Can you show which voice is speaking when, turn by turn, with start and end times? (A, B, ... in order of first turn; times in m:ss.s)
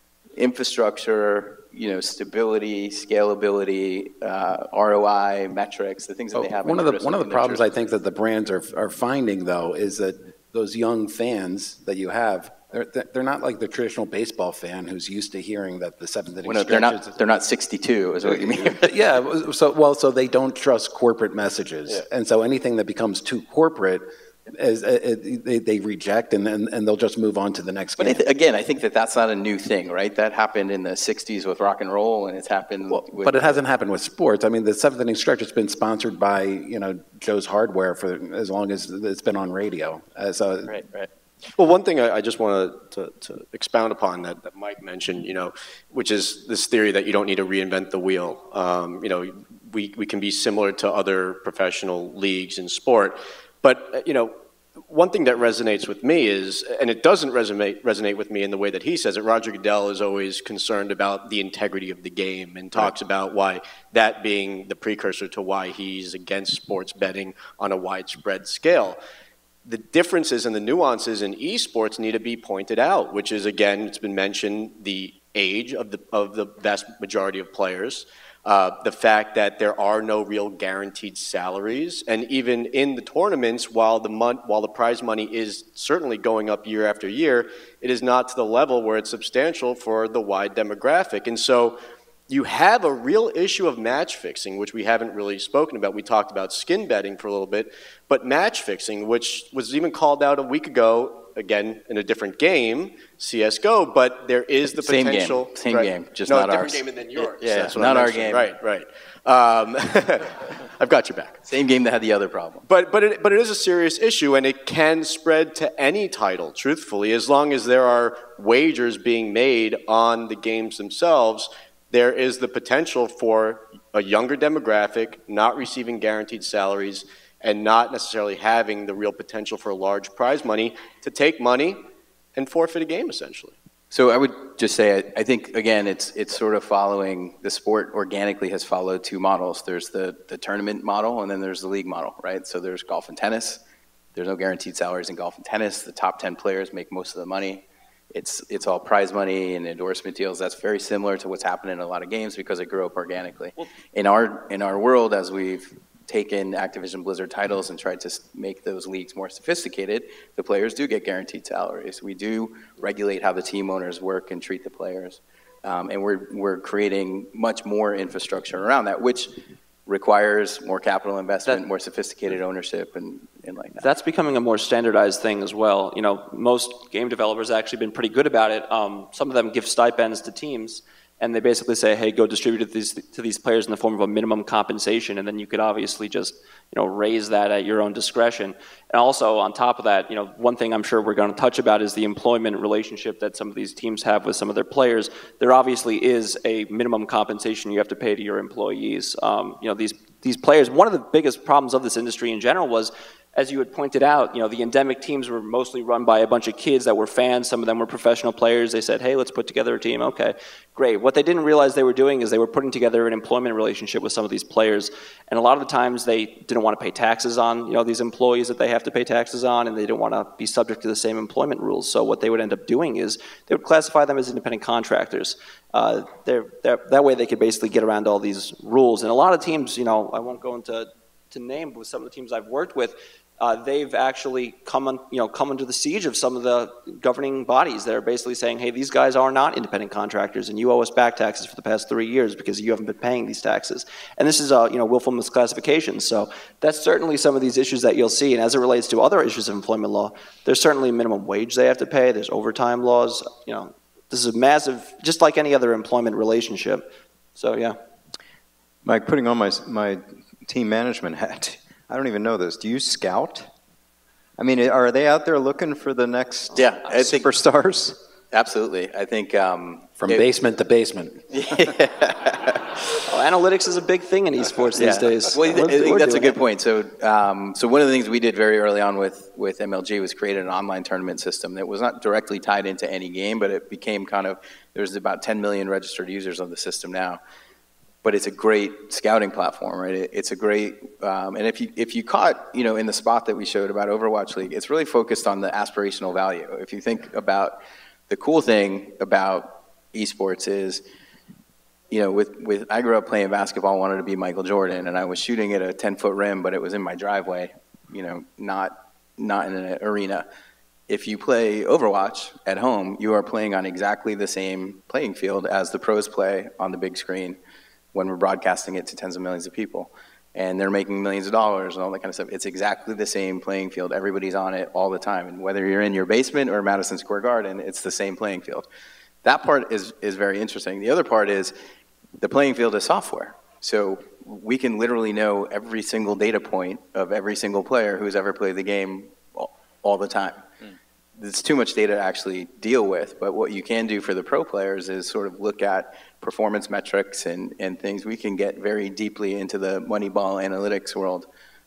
0:00.4-0:07.6 A
0:06.3-0:17.2 B
0:16.4-0:18.9 A
0:18.2-0:28.2 B
0:28.0-0:33.6 A
0:32.9-0:40.8 B
0:40.7-0:41.1 A
0:41.6-0:54.3 C
0:54.9-1:09.0 C
1:09.6-1:51.4 C
1:44.8-1:48.5 A
1:51.4-1:52.6 A
1:52.7-2:11.8 C
2:12.4-2:13.6 C
2:13.9-2:23.6 A
2:24.1-2:53.8 A
2:53.8-4:17.8 D
4:18.8-4:23.5 E
4:24.4-4:28.0 E
4:26.5-4:27.3 A
4:28.3-4:30.2 A
4:30.0-4:31.2 B
4:31.3-4:32.6 A
4:33.1-4:36.4 D
4:34.8-4:47.2 A
4:48.0-4:57.6 A
4:58.1-5:00.8 A
5:01.9-5:10.2 A
5:10.9-5:17.4 A
5:17.9-5:28.6 A
5:29.2-5:31.5 A
5:32.2-5:40.4 A
5:41.2-5:51.3 A